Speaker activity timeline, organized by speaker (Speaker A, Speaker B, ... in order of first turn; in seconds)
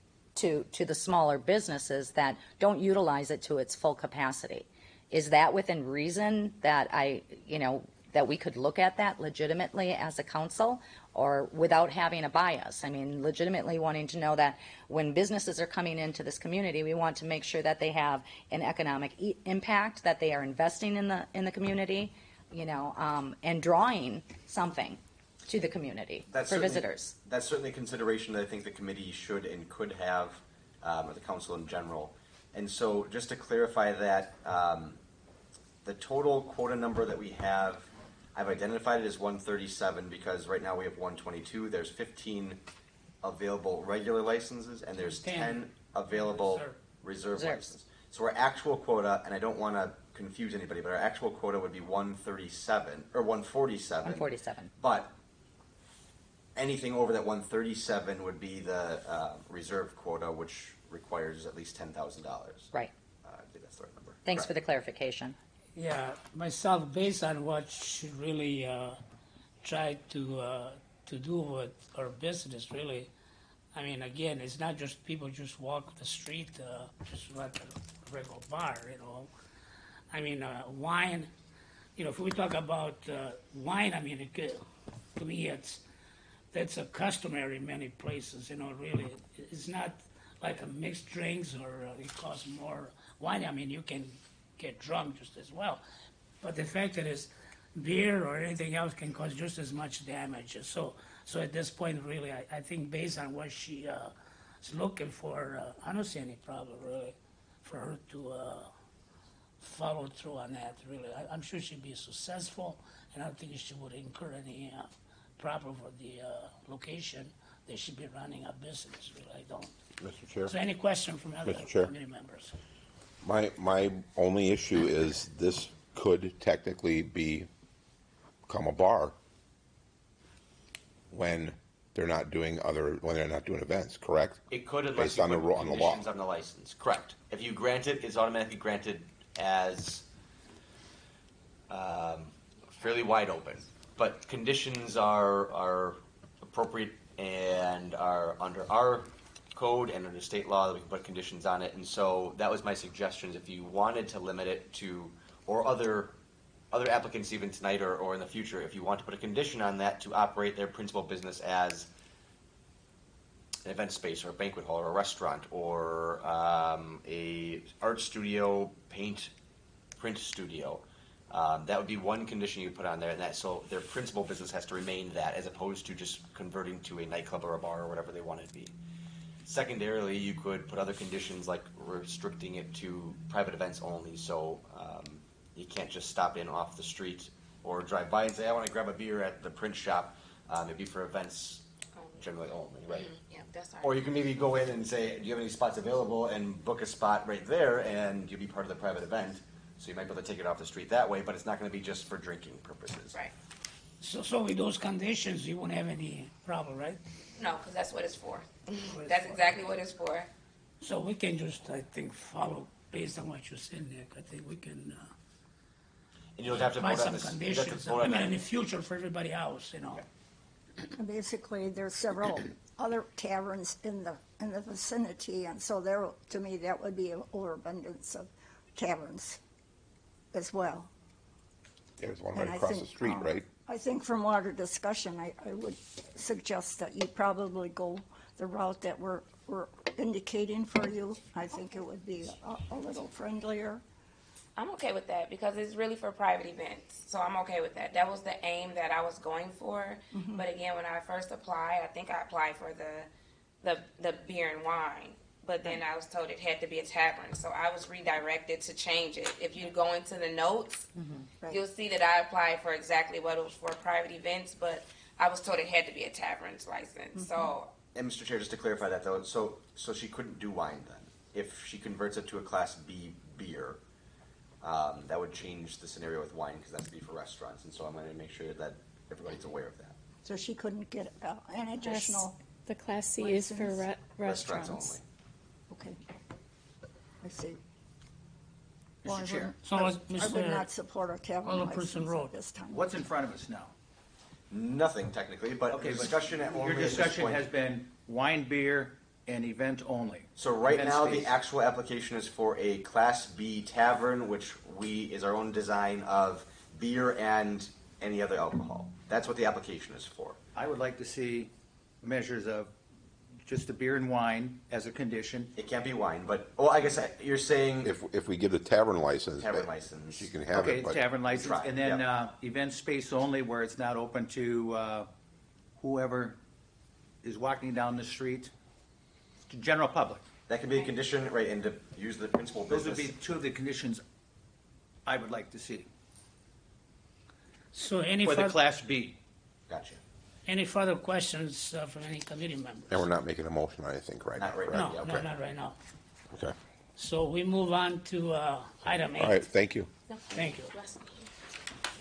Speaker A: 0.4-27.1, 47.4-47.7, 54.0-54.7, 64.3-65.4, 260.9-261.3
Speaker B: 26.3-35.0, 35.8-42.6, 43.2-55.1, 56.5-62.7, 63.2-64.5, 134.5-140.1, 141.7-156.1, 156.7-161.9, 163.7-169.3, 170.0-178.8, 179.4-191.6, 192.2-193.1, 193.8-203.2, 216.4-218.4, 267.9-273.8, 274.6-280.0, 284.2-285.0, 294.5-297.5, 300.4-310.4, 315.6-317.9, 319.4-320.3, 321.3-322.1, 330.5-333.2, 339.7-340.0, 344.4-345.3
Speaker C: 45.0-46.8, 65.8-69.0, 69.6-73.1, 73.8-79.3, 80.1-81.3, 82.0-84.7, 85.2-85.8, 86.5-95.8, 96.4-108.7, 109.6-119.8, 120.5-122.5, 204.0-207.0, 208.9-209.5, 210.8-215.1, 216.5-220.0, 289.6-290.7, 291.4-292.3, 337.7-338.6, 340.5-343.1, 344.7-345.8, 347.0-349.5, 350.3-350.7
Speaker D: 120.0-120.5, 121.4-121.9, 123.2-127.5, 128.5-129.2, 131.1-134.4, 134.9-136.0, 232.0-233.5, 317.8-321.0, 342.9-345.2, 348.9-349.9
Speaker E: 191.9-192.3, 192.9-194.0, 207.4-210.3, 244.6-253.1, 253.6-260.9, 261.5-267.7, 350.1-351.3
Speaker F: 220.9-229.4, 230.3-230.9, 232.3-243.8, 250.1-250.5, 267.2-267.5, 280.2-282.4, 283.2-283.9, 285.7-286.0, 287.2-287.6, 289.1-292.9
Speaker G: 281.8-284.9
Speaker H: 289.0-289.5, 292.7-293.7, 295.7-301.4, 310.6-311.5, 312.0-312.7, 313.4-315.5, 320.5-325.1, 325.8-326.4, 327.2-328.5, 329.5-330.2, 332.7-334.0, 335.1-335.9, 338.2-339.2